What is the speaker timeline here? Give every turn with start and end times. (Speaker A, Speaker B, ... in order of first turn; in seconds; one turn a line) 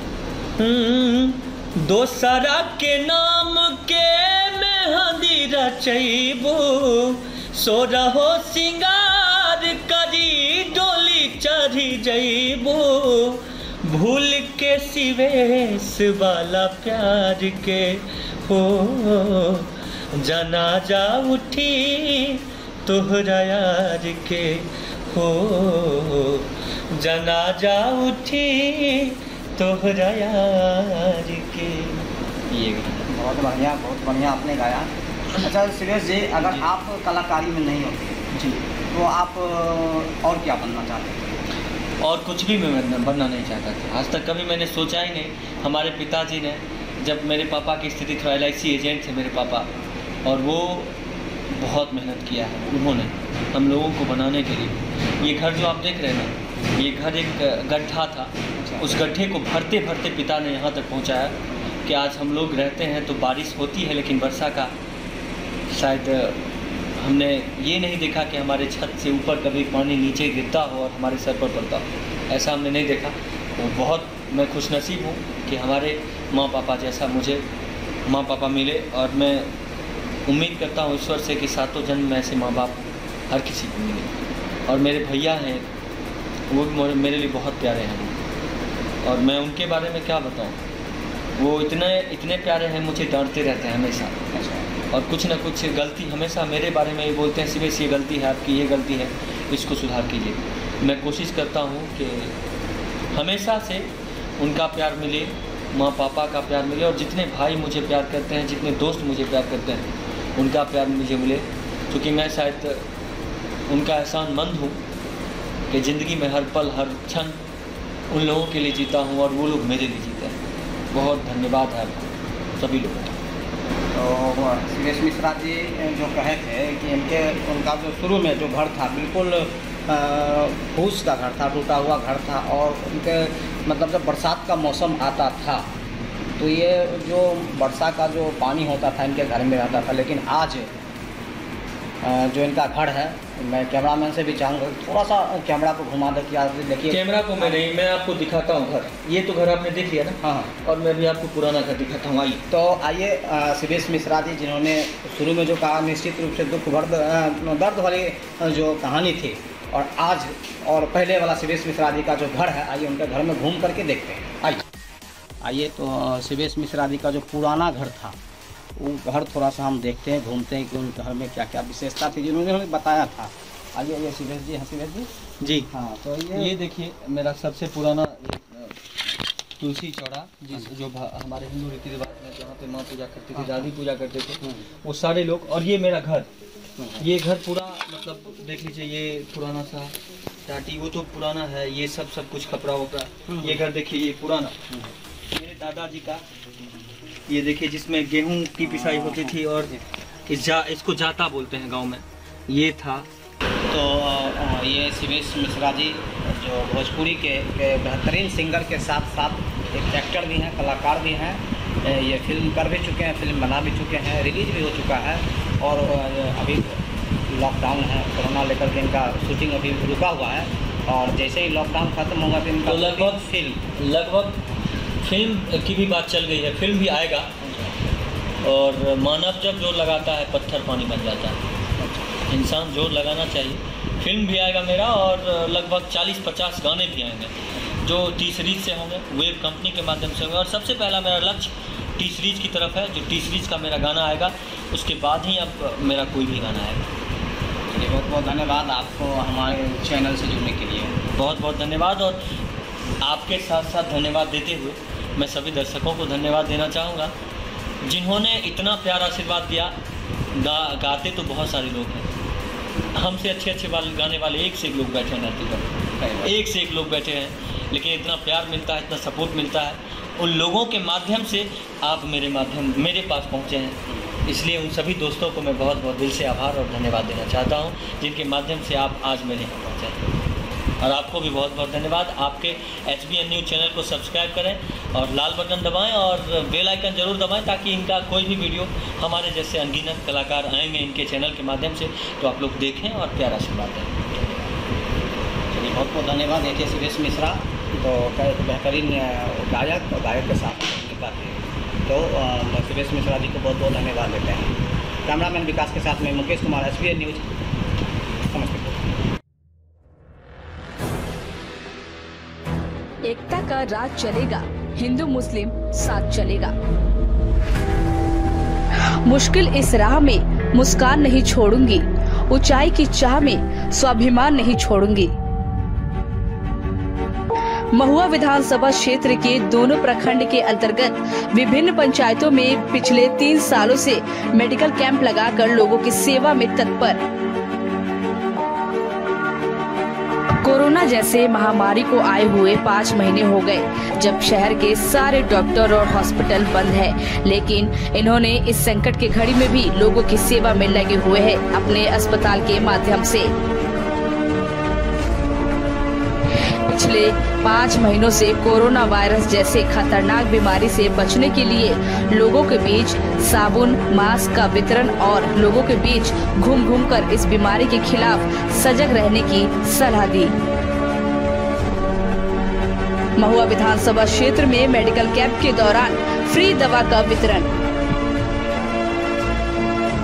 Speaker A: 0.6-33.1
Speaker B: 33.1-38.2
Speaker A: 36.4-36.7
Speaker A: 38.3-38.6
Speaker B: 38.9-41.4
Speaker A: 42.0-49.7
Speaker A: 50.2-50.9
Speaker A: 51.5-64.7
Speaker B: 58.6-58.9
Speaker A: 65.7-66.4
Speaker A: 67.0-77.4
Speaker A: 78.0-79.5
Speaker A: 80.3-84.1
Speaker A: 84.7-85.7
Speaker A: 86.5-88.2
Speaker A: 89.0-90.6
Speaker A: 91.4-94.2
Speaker B: 94.3-94.7
Speaker A: 94.9-102.3
Speaker A: 103.1-112.8
Speaker A: 113.7-114.8
Speaker A: 115.7-117.4
Speaker A: 118.1-120.4
Speaker A: 120.9-123.1
Speaker B: 123.9-135.7
Speaker B: 136.4-140.7
Speaker B: 142.0-147.6
Speaker A: 146.9-152.4
Speaker B: 150.2-150.5
Speaker B: 152.5-164.6
Speaker B: 165.4-168.2
Speaker B: 168.8-175.1
Speaker A: 175.4-175.7
Speaker B: 175.7-176.5
Speaker A: 176.3-179.0
Speaker A: 179.6-186.3
Speaker B: 183.3-183.7
Speaker B: 186.8-187.0
Speaker A: 187.0-189.9
Speaker A: 190.4-194.6
Speaker B: 193.3-193.6
Speaker A: 195.3-196.2
Speaker A: 197.3-203.1
Speaker B: 198.6-199.3
Speaker B: 203.7-223.6
Speaker A: 222.7-223.2
Speaker A: 223.8-224.4
Speaker A: 225.0-227.3
Speaker B: 227.4-227.8
Speaker A: 228.4-231.4
Speaker B: 231.8-232.1
Speaker A: 232.3-246.8
Speaker B: 247.7-251.0
Speaker A: 251.1-252.2
Speaker A: 253.0-257.1
Speaker A: 257.8-259.7
Speaker A: 260.3-262.1
Speaker A: 262.9-280.0
Speaker B: 266.0-266.3
Speaker B: 273.9-274.2
Speaker A: 280.8-294.4
Speaker B: 295.5-307.3
Speaker B: 308.3-308.8
Speaker C: 313.1-316.5
Speaker C: 319.0-325.1
Speaker C: 327.7-337.0
Speaker C: 340.4-353.3
Speaker C: 356.6-370.3
Speaker C: 373.2-377.5